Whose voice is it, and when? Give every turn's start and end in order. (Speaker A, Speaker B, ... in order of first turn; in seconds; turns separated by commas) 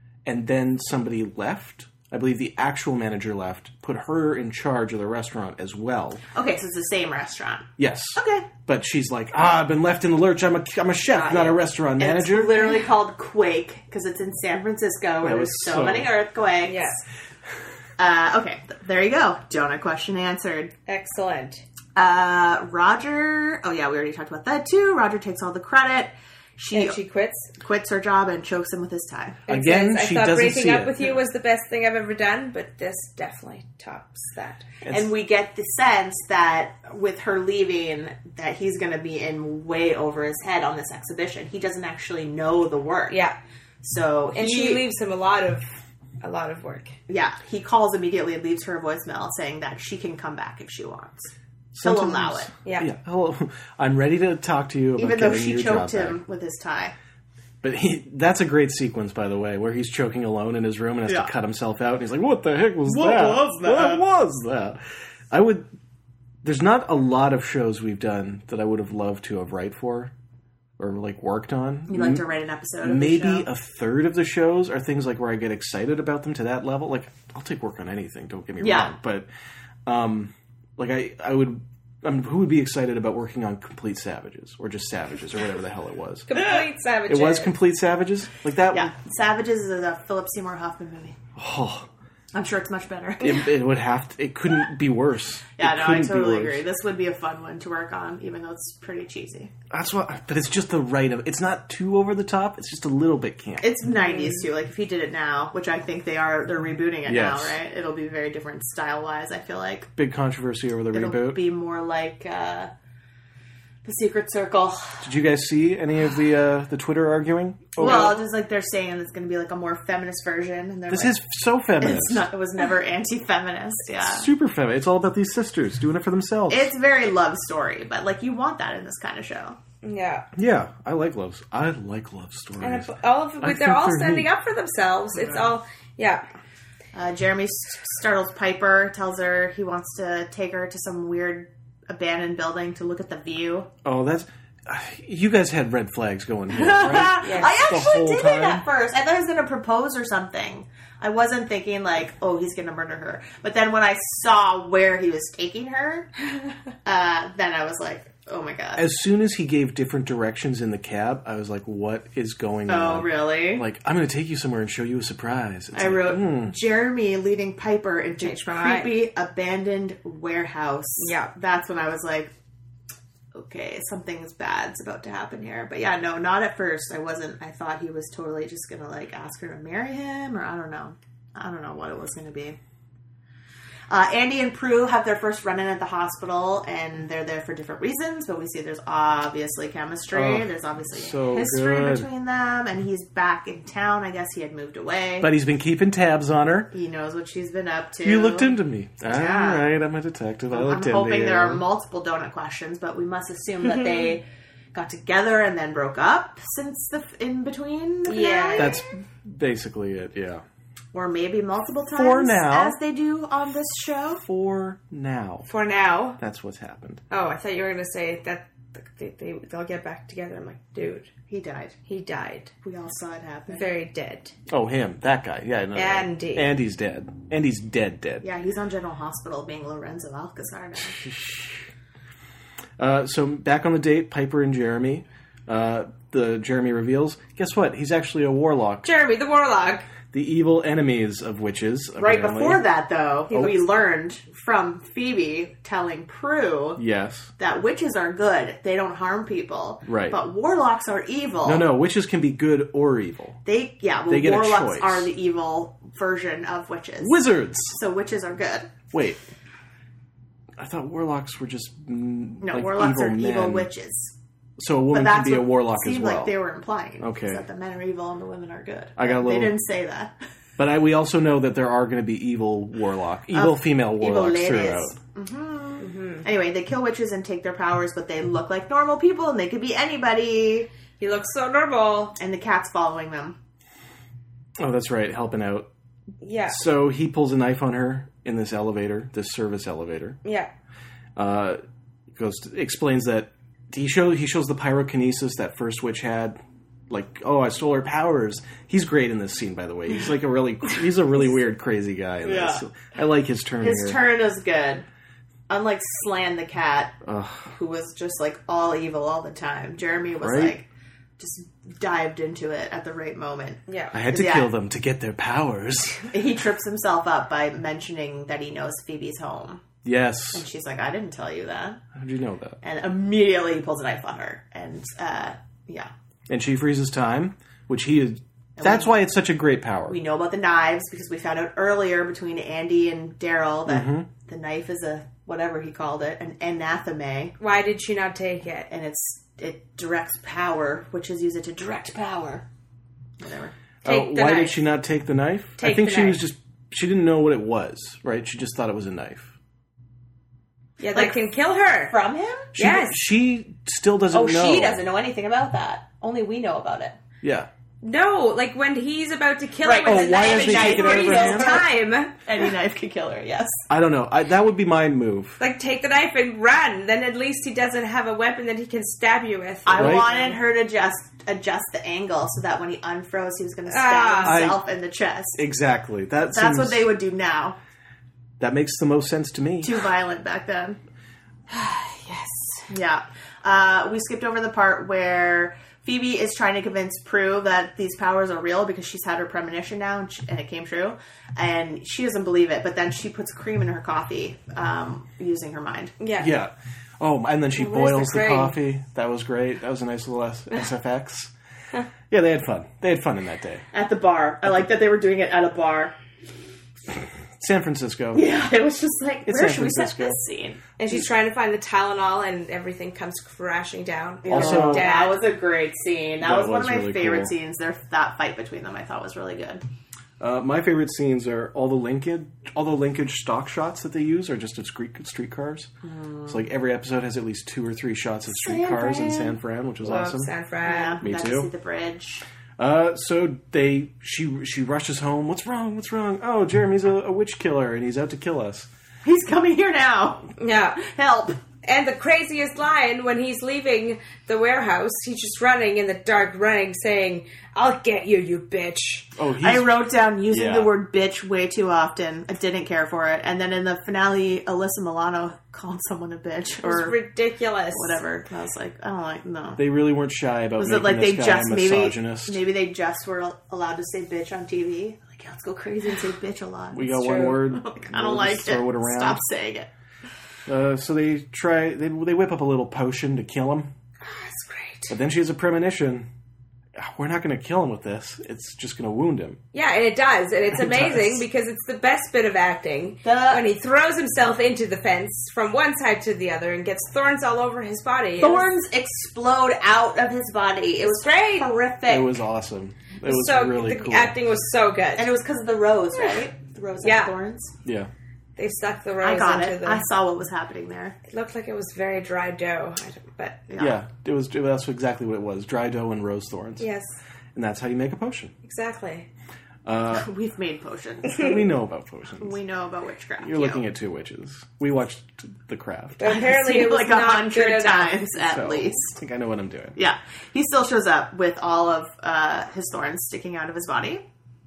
Speaker A: 0.2-6.2, Speaker B: 6.3-8.5, Speaker A: 7.8-12.7, Speaker B: 11.1-17.0, Speaker A: 15.2-16.1, Speaker C: 16.7-17.0, Speaker B: 18.0-20.7, Speaker C: 20.9-21.6, Speaker B: 21.9-27.0, Speaker C: 26.7-27.5, Speaker B: 27.6-29.4, Speaker A: 29.5-31.0, Speaker C: 29.5-34.7, Speaker B: 34.9-43.2, Speaker C: 43.1-43.4, Speaker B: 43.8-44.8, Speaker C: 44.3-45.6, Speaker C: 46.2-47.0, Speaker B: 47.1-52.5, Speaker A: 51.7-56.2, Speaker B: 55.0-56.9, Speaker A: 57.6-65.7, Speaker B: 62.8-64.0, Speaker A: 66.4-70.1, Speaker A: 70.8-72.3, Speaker B: 71.9-73.5, Speaker A: 72.8-79.3, Speaker B: 78.6-78.9, Speaker A: 79.8-86.4, Speaker C: 86.3-87.5, Speaker A: 87.1-88.9, Speaker B: 88.7-91.2, Speaker A: 91.3-91.9, Speaker B: 92.3-93.5, Speaker A: 93.2-96.6, Speaker B: 95.5-99.5, Speaker A: 99.7-103.7, Speaker B: 103.6-109.9, Speaker C: 103.9-104.4, Speaker A: 107.0-107.6, Speaker A: 110.0-111.4, Speaker B: 110.9-112.7, Speaker B: 113.8-115.1, Speaker A: 115.0-118.2, Speaker B: 117.8-121.2, Speaker A: 120.9-122.3, Speaker B: 121.8-124.3, Speaker A: 124.0-126.7, Speaker B: 126.5-129.6, Speaker C: 129.8-130.3, Speaker A: 130.3-134.3, Speaker C: 132.6-136.2, Speaker B: 136.9-143.7, Speaker A: 143.8-148.6, Speaker B: 146.5-156.1, Speaker C: 147.2-147.5, Speaker B: 156.8-158.8, Speaker A: 158.8-166.6, Speaker B: 162.7-163.7, Speaker B: 165.7-172.3, Speaker C: 168.2-169.1, Speaker C: 171.0-171.3, Speaker B: 173.3-182.6, Speaker B: 183.9-195.3, Speaker A: 190.1-192.1, Speaker A: 195.2-196.7, Speaker B: 196.7-199.7, Speaker A: 198.0-201.6, Speaker B: 200.5-208.8, Speaker C: 208.1-208.8, Speaker A: 208.5-210.4, Speaker B: 210.9-214.2, Speaker A: 211.9-212.8, Speaker A: 214.2-215.5, Speaker C: 215.5-216.2, Speaker A: 216.2-217.0, Speaker C: 217.1-221.1, Speaker B: 221.3-221.8, Speaker C: 221.9-222.5, Speaker B: 222.6-223.7, Speaker C: 223.5-224.3, Speaker A: 224.5-228.2, Speaker C: 225.7-226.5, Speaker B: 228.2-231.0, Speaker A: 230.9-231.7, Speaker A: 232.8-238.9, Speaker C: 238.8-239.9, Speaker A: 240.1-242.7, Speaker B: 242.0-246.8, Speaker C: 243.3-243.6, Speaker A: 246.8-247.3, Speaker B: 247.4-251.7, Speaker A: 249.8-250.2, Speaker A: 251.4-253.4, Speaker B: 253.4-258.7, Speaker A: 254.1-255.1, Speaker A: 257.0-257.8, Speaker A: 258.9-259.2, Speaker A: 260.6-263.7, Speaker B: 262.4-264.1, Speaker A: 264.6-266.3, Speaker B: 264.9-270.1, Speaker A: 267.0-267.4, Speaker A: 269.0-269.6, Speaker A: 270.6-274.9, Speaker B: 273.3-280.7, Speaker C: 275.8-276.2, Speaker C: 281.0-282.1, Speaker B: 282.2-283.4, Speaker A: 284.6-285.7, Speaker C: 286.2-286.6, Speaker A: 286.5-290.2, Speaker C: 290.2-290.5, Speaker A: 291.1-304.1, Speaker B: 302.2-302.6, Speaker B: 303.6-304.9, Speaker B: 305.5-310.7, Speaker A: 307.0-307.5, Speaker A: 310.2-310.5, Speaker B: 311.2-314.5, Speaker C: 313.7-313.9, Speaker A: 313.9-316.1, Speaker B: 316.1-319.6, Speaker A: 319.8-320.4, Speaker B: 320.3-321.8, Speaker A: 321.9-322.6, Speaker B: 322.6-325.9, Speaker A: 326.3-330.0, Speaker B: 328.6-329.0, Speaker B: 329.9-337.3, Speaker A: 333.7-334.1, Speaker C: 337.4-338.7, Speaker B: 338.7-342.4, Speaker B: 343.2-343.5, Speaker A: 343.8-349.3, Speaker C: 343.8-344.6, Speaker C: 345.6-346.2, Speaker C: 350.8-352.0, Speaker B: 350.9-351.3, Speaker B: 351.8-352.5, Speaker A: 352.5-354.8, Speaker C: 352.6-353.0, Speaker B: 354.1-356.9, Speaker A: 357.2-357.5, Speaker C: 357.8-362.1, Speaker B: 359.6-361.7, Speaker A: 359.8-361.6, Speaker B: 362.2-363.5, Speaker A: 363.7-365.4, Speaker C: 365.4-370.4, Speaker B: 369.6-375.4, Speaker A: 369.8-370.1, Speaker C: 373.7-374.5, Speaker A: 374.2-374.6, Speaker A: 375.4-376.9, Speaker B: 376.3-377.6, Speaker A: 378.4-379.9, Speaker B: 379.6-380.8, Speaker C: 381.5-382.7, Speaker B: 382.7-395.9, Speaker C: 396.0-396.3, Speaker A: 396.2-401.3, Speaker C: 397.6-398.6, Speaker A: 402.1-403.6, Speaker B: 403.7-405.9, Speaker A: 407.4-408.2, Speaker B: 408.1-411.0, Speaker A: 409.2-410.2, Speaker C: 410.8-415.2, Speaker B: 414.2-419.6, Speaker A: 414.3-414.9, Speaker A: 416.2-417.3, Speaker A: 420.2-425.7, Speaker B: 425.8-426.4, Speaker A: 426.3-430.3, Speaker B: 428.3-429.4, Speaker C: 429.8-431.0, Speaker B: 430.6-432.2, Speaker A: 431.0-431.5, Speaker A: 432.6-438.7, Speaker B: 439.0-441.4, Speaker C: 440.4-440.8, Speaker C: 441.6-449.1, Speaker A: 449.2-450.7, Speaker B: 449.4-457.0, Speaker C: 456.6-458.0, Speaker B: 457.7-459.6, Speaker A: 459.6-462.4, Speaker B: 460.6-469.7, Speaker A: 466.7-469.2, Speaker C: 467.0-467.4, Speaker A: 470.5-473.7, Speaker C: 474.0-474.9, Speaker A: 474.9-476.1, Speaker A: 476.8-479.4, Speaker C: 479.5-488.5, Speaker A: 480.5-481.2, Speaker B: 483.0-483.4, Speaker B: 488.2-492.2, Speaker C: 490.8-491.5, Speaker A: 491.9-494.2, Speaker C: 493.0-495.1, Speaker B: 494.9-497.5, Speaker C: 496.8-497.1, Speaker A: 497.6-497.9, Speaker C: 498.4-499.8, Speaker B: 499.0-501.0, Speaker C: 501.1-503.5, Speaker B: 503.5-503.8, Speaker A: 503.6-506.7, Speaker C: 506.6-506.9, Speaker A: 507.3-508.3, Speaker C: 508.4-509.1, Speaker A: 509.6-510.1, Speaker B: 509.9-511.3, Speaker A: 511.0-512.4, Speaker B: 512.2-513.6, Speaker A: 513.2-516.0, Speaker C: 516.0-518.0, Speaker B: 516.0-519.0, Speaker A: 518.1-519.8, Speaker B: 519.8-524.0